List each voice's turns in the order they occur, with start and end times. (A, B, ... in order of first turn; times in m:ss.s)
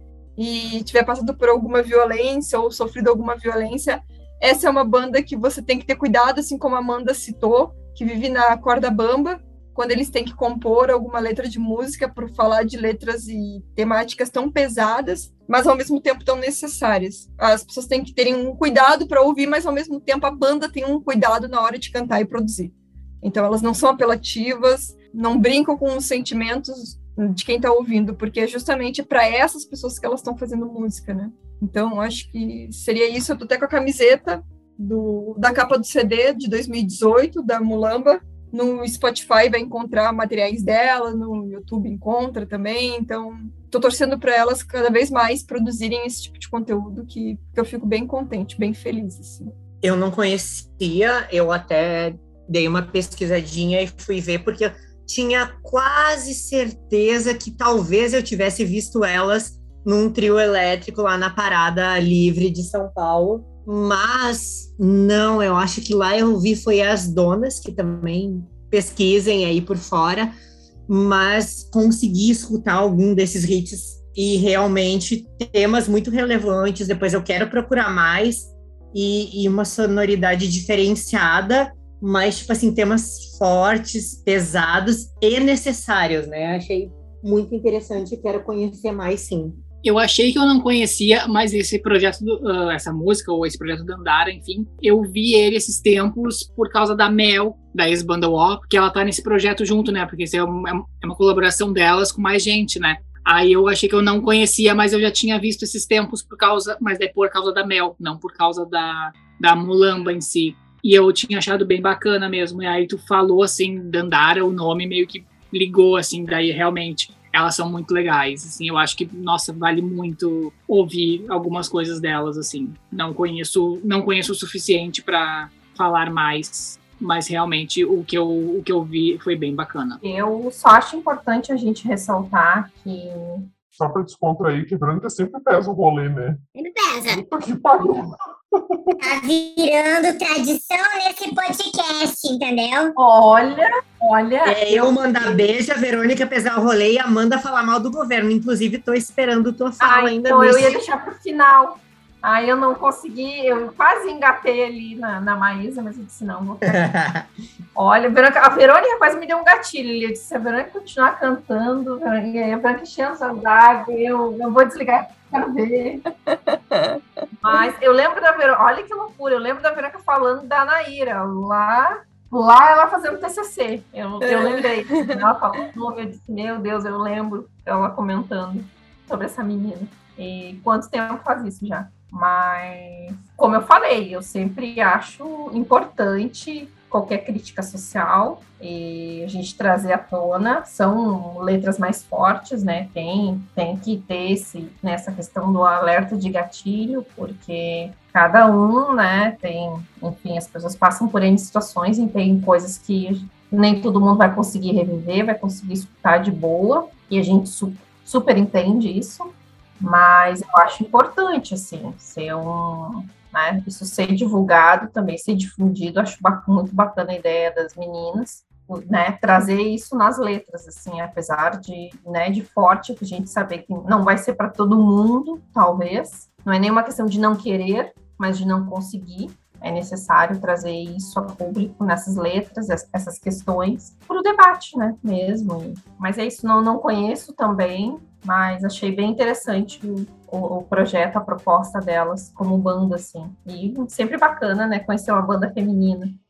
0:00.4-0:49.5 A
0:49.8-1:10.3 B
1:10.9-1:29.6 B
1:29.8-2:10.0 C
2:10.0-2:13.5 D
2:13.7-2:16.4 E
2:16.5-2:17.2 F
2:17.1-2:18.8 E
2:19.0-2:22.9 F
2:23.0-2:25.4 D
2:24.4-2:30.8 B
2:29.8-2:36.9 D
2:36.6-2:37.2 B
2:37.8-2:46.0 D
2:46.3-2:47.7 A
2:47.4-4:06.2 D
2:54.2-2:55.2 A